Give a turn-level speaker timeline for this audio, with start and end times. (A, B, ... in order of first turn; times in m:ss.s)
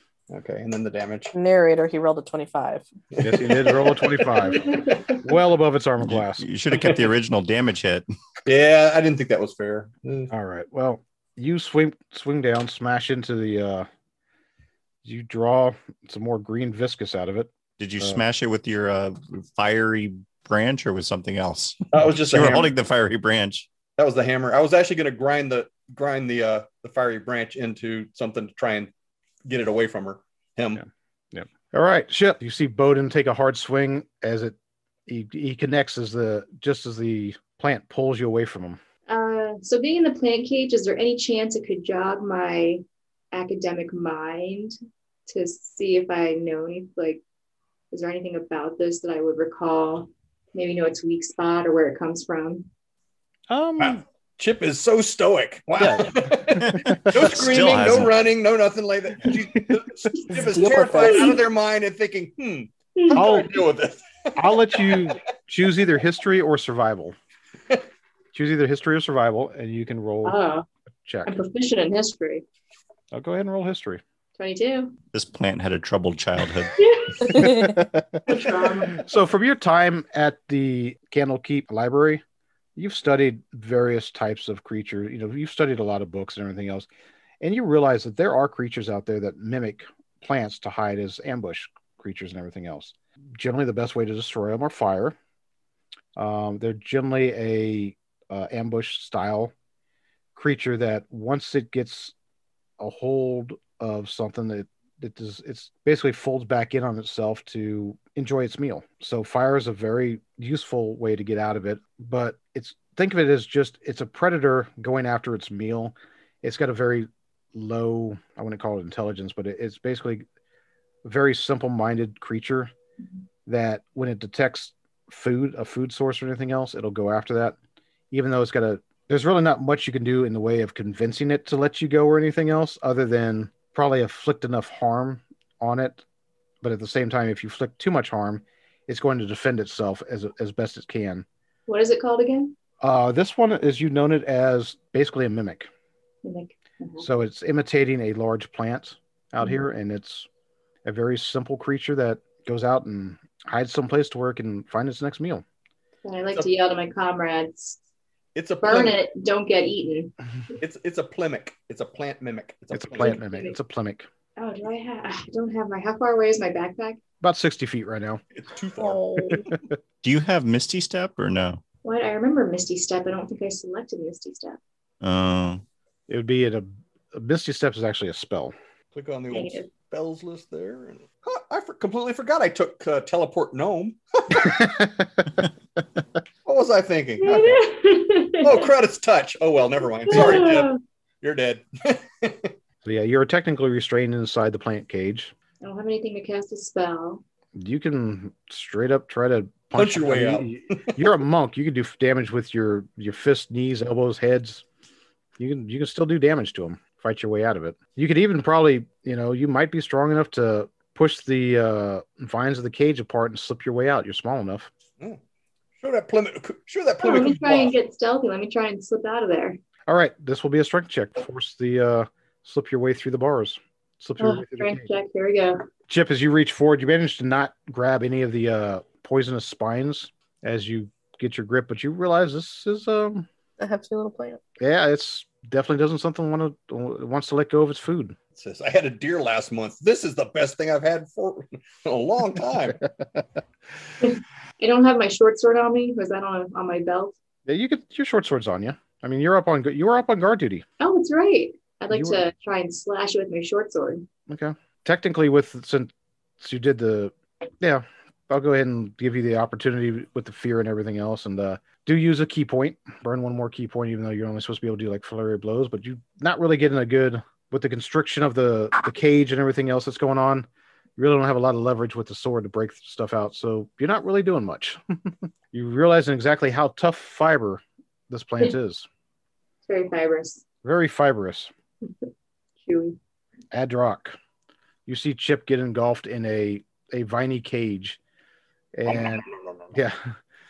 0:00.3-0:01.3 A
0:01.3-0:02.9 B
0:03.1-0:05.0 A
0:03.2-0:06.4 C
0:04.5-0:05.2 D
0:06.0-0:08.0 E
0:06.7-0:07.1 A
0:08.4-0:10.3 A
0:10.3-0:13.9 C
0:15.0-0:18.2 C
0:17.8-0:23.7 E
0:21.9-0:22.7 A
0:24.0-0:28.9 A
0:29.4-0:30.8 A
0:30.7-0:34.6 C
0:35.1-0:38.8 C
0:39.1-0:44.8 D
0:45.3-0:47.2 D
0:47.9-0:52.6 D
0:53.5-0:54.0 C
0:53.8-1:05.2 A
0:55.8-0:57.3 C
0:56.6-0:58.2 E
0:59.3-0:59.8 C
1:00.3-1:01.4 B
1:00.9-1:01.4 D
1:03.0-1:03.2 D
1:03.1-1:03.6 C
1:04.4-1:07.1 C
1:08.3-1:10.4 C
1:10.2-1:10.6 D
1:11.0-1:11.3 C
1:11.2-1:12.4 D
1:13.1-1:14.0 C
1:14.4-1:15.0 D
1:15.1-1:16.8 E
1:16.8-1:17.5 D
1:17.2-1:22.2 C
1:17.3-1:17.8 B
1:18.3-1:19.0 D
1:22.8-1:26.9 C
1:27.4-1:35.2 C
1:36.2-1:39.5 C
1:40.3-1:42.1 C
1:42.8-2:00.2 C
2:01.0-2:02.7 C
2:03.4-2:07.6 C
2:08.1-2:16.0 C
2:16.6-2:21.2 C
2:21.7-2:22.6 D
2:22.8-2:25.7 C
2:26.2-2:27.1 D
2:27.0-2:30.3 C
2:30.8-2:35.4 C
2:36.0-2:37.8 D
2:38.3-2:39.0 A
2:38.6-2:40.1 D
2:40.6-2:43.2 A
2:42.7-2:44.1 C
2:43.0-2:43.5 D
2:44.4-2:47.0 D
2:47.2-2:48.2 C
2:48.4-2:49.6 A
2:48.8-2:49.6 C
2:50.0-2:51.6 E
2:51.8-2:54.6 D
2:55.0-2:55.6 E
2:56.1-2:58.5 C
2:58.9-3:04.7 A
2:59.3-2:59.7 D
3:04.3-3:05.4 C
3:06.4-3:07.6 A
3:07.2-3:08.7 D
3:08.4-3:12.5 A
3:10.1-3:10.8 D
3:10.1-3:10.4 C
3:12.8-3:15.3 C
3:15.6-3:17.2 D
3:17.5-3:24.6 C
3:19.8-3:21.1 A
3:25.4-3:34.7 C
3:35.8-3:37.8 A
3:37.0-3:39.6 D
3:39.9-3:44.9 C
3:44.2-3:45.7 D
3:45.9-3:53.3 C
3:53.6-3:54.4 B
3:54.6-3:58.2 C
3:58.4-4:02.8 A
4:04.0-4:07.1 D
4:07.4-4:10.6 C
4:10.8-4:14.1 D
4:11.9-4:12.2 C
4:14.3-4:38.9 C
4:39.7-4:40.4 D
4:40.6-4:41.5 C
4:42.6-4:43.0 D
4:43.5-4:44.2 C
4:44.8-4:48.0 C
4:48.7-4:50.2 C
4:48.9-4:49.7 A